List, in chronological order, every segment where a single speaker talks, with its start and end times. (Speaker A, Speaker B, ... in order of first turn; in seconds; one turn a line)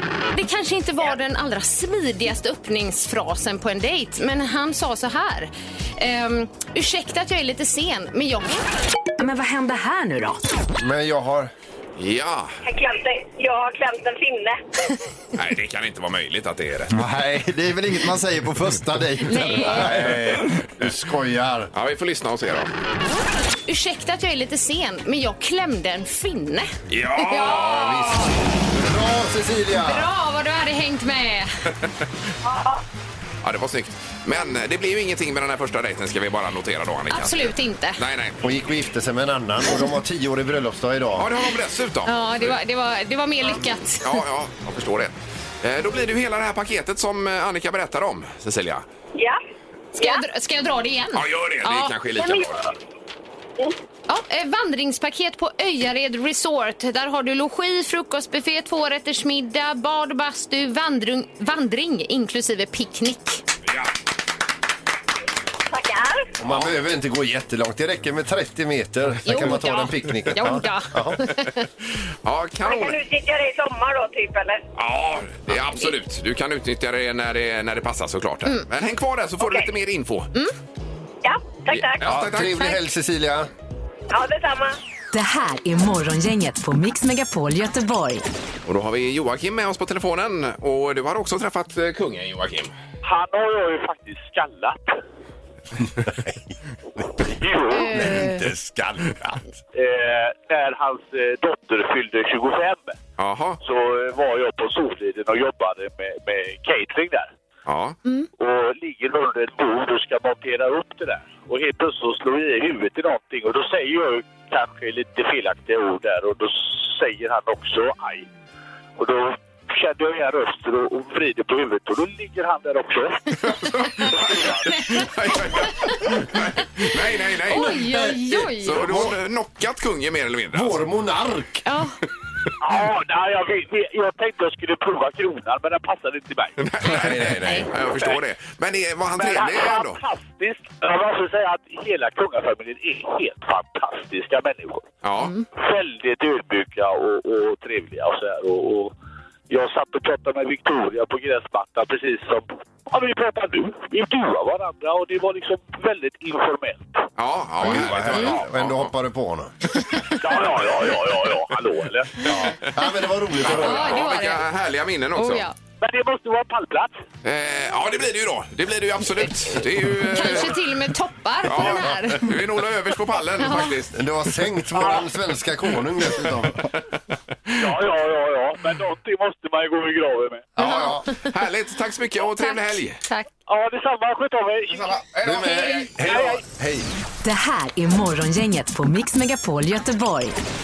Speaker A: 0.3-8.6
Speaker B: 9.2-10.4
Speaker C: 10.8-11.5
Speaker D: 12.0-12.6
Speaker E: 12.6-14.6
Speaker D: 15.3-16.9
Speaker F: 16.9-20.0
Speaker A: 19.2-19.9
Speaker C: 19.5-21.7
Speaker D: 19.9-20.8
Speaker D: 21.7-22.7
Speaker A: 23.6-28.3
Speaker D: 26.9-28.1
Speaker C: 27.4-30.1
Speaker A: 29.8-31.5
Speaker E: 32.5-32.8
Speaker D: 33.4-38.4
Speaker A: 37.1-38.0
Speaker C: 38.4-41.3
Speaker D: 41.2-42.6
Speaker A: 42.0-44.2
Speaker D: 44.0-48.8
Speaker A: 50.0-51.9
Speaker E: 50.0-50.2
Speaker D: 51.1-52.7
Speaker E: 52.1-52.5
Speaker A: 54.1-63.4
Speaker E: 65.7-66.3
Speaker C: 66.4-71.3
Speaker D: 66.4-66.7
Speaker A: 69.2-71.7
Speaker D: 72.2-73.0
Speaker E: 72.6-74.6
Speaker D: 74.8-80.3
Speaker E: 79.4-79.7
Speaker E: 81.2-82.1
Speaker D: 81.7-82.8
Speaker C: 82.0-83.5
Speaker E: 84.1-84.7
Speaker B: 85.1-88.2
Speaker D: 88.7-92.7
Speaker G: 93.0-95.0
Speaker C: 96.1-96.3
Speaker C: 97.0-97.3
Speaker G: 97.4-97.9
Speaker A: 97.7-98.5
Speaker C: 97.8-99.5
Speaker G: 99.7-103.0
Speaker D: 103.2-103.6
Speaker G: 103.6-107.3
Speaker D: 107.7-108.0
Speaker G: 108.4-118.3
Speaker G: 119.0-123.2
Speaker D: 123.4-127.7
Speaker G: 124.2-124.6
Speaker A: 124.7-125.1
Speaker A: 125.6-125.9
Speaker C: 127.5-129.2
Speaker A: 127.5-128.9
Speaker D: 128.6-130.8
Speaker C: 130.5-131.6
Speaker A: 131.7-131.9
Speaker G: 132.6-136.5
Speaker D: 136.6-140.0
Speaker C: 136.8-137.7
Speaker A: 137.4-137.7
Speaker G: 139.1-144.9
Speaker D: 145.0-145.3
Speaker G: 145.5-148.9
Speaker G: 149.5-157.0
Speaker D: 157.2-158.9
Speaker C: 157.6-159.5
Speaker A: 158.1-158.4
Speaker A: 159.9-160.2
Speaker G: 160.2-162.3
Speaker C: 162.2-164.1
Speaker D: 163.4-165.5
Speaker A: 163.5-164.4
Speaker A: 165.2-165.5
Speaker G: 165.8-167.0
Speaker D: 167.2-170.6
Speaker A: 170.0-172.3
Speaker D: 171.4-174.0
Speaker A: 173.4-173.7
Speaker C: 173.9-176.6
Speaker D: 174.7-175.0
Speaker G: 177.6-180.5
Speaker C: 180.6-181.0
Speaker D: 180.6-183.0
Speaker A: 180.6-180.9
Speaker A: 182.3-183.3
Speaker G: 183.5-185.0
Speaker D: 184.7-186.1
Speaker C: 185.2-186.9
Speaker G: 186.0-186.4
Speaker B: 187.2-190.3